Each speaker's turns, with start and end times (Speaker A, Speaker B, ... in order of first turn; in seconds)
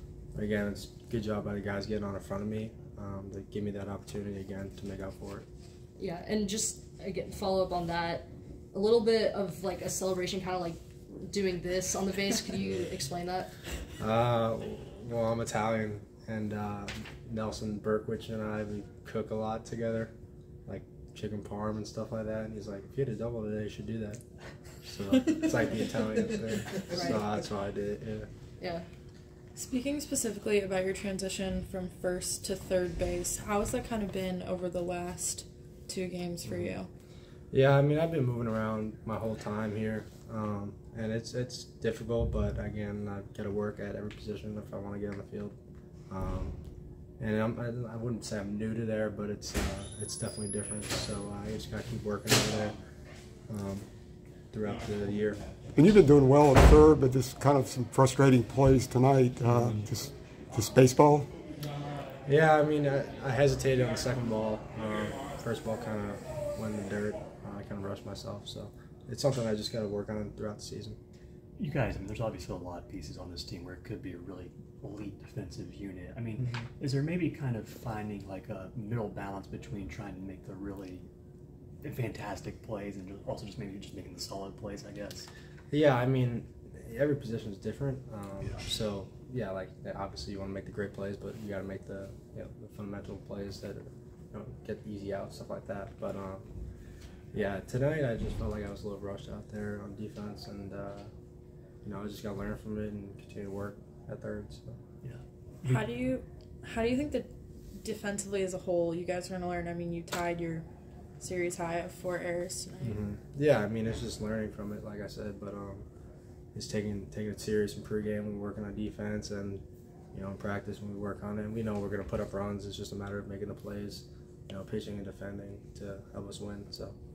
Speaker A: 0.3-5.5, 14.0-20.1, 20.7-24.2, 24.8-28.3, 37.5-45.6, 46.1-46.5, 47.2-52.8, 53.5-53.9, 54.5-55.4, 62.3-71.0, 85.7-96.4, 97.3-101.1, 101.8-104.8, 112.8-115.9, 116.5-127.0
Speaker B: 6.0-13.5, 26.9-27.2, 28.6-28.9
Speaker C: 29.6-36.9, 105.7-107.3, 107.8-110.7, 111.2-113.0
Speaker D: 55.8-61.3
Speaker E: 71.6-81.1, 81.8-85.3, 105.0-105.8